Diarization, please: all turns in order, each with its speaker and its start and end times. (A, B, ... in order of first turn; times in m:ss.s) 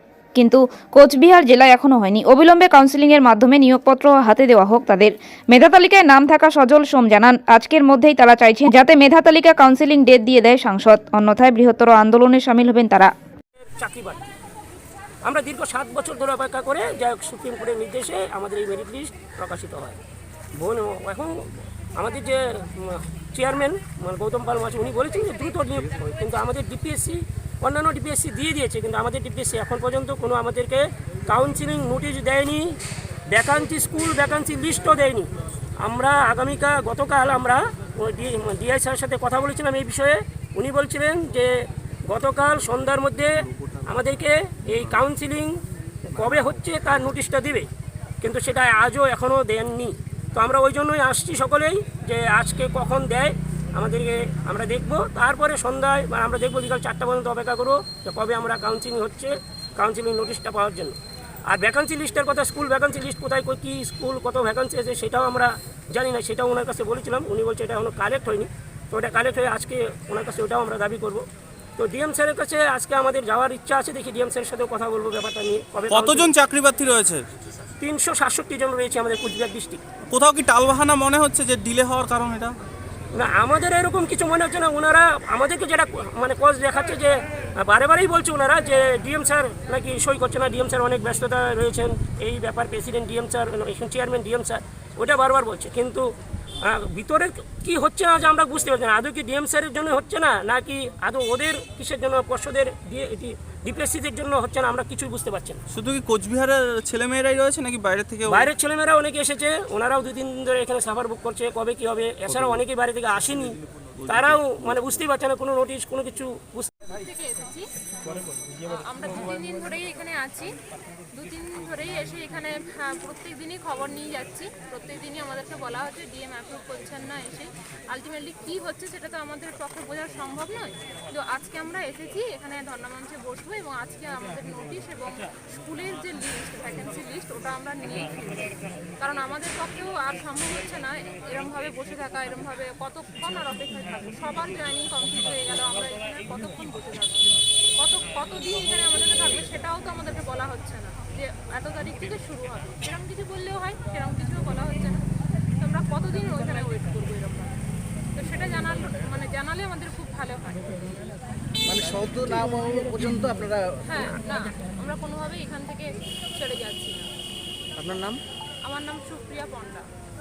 0:00.4-0:13.1 A
0:13.6-0:14.2 B
0:15.2-0:20.0 B
0:20.6-0:32.8 B
0:33.3-0:35.3 B
0:35.8-0:41.5 B
0:42.1-0:47.7 B
0:48.2-1:01.0 B
1:01.5-1:11.2 B
1:11.8-1:16.3 B
1:15.9-1:17.2 C
1:17.8-1:19.8 B
1:20.1-1:22.6 C
1:23.1-1:36.1 B
1:36.6-1:45.6 B
1:45.7-1:48.5 C
1:48.3-1:56.7 B
1:54.0-1:54.4 C
1:56.9-1:57.7 D
1:58.6-2:00.5 D
2:01.1-2:35.0 D
2:35.6-2:37.5 D
2:38.1-2:40.7 D
2:41.7-2:44.0 E
2:43.8-2:47.1 D
2:47.8-2:48.2 E
2:48.7-2:49.8 D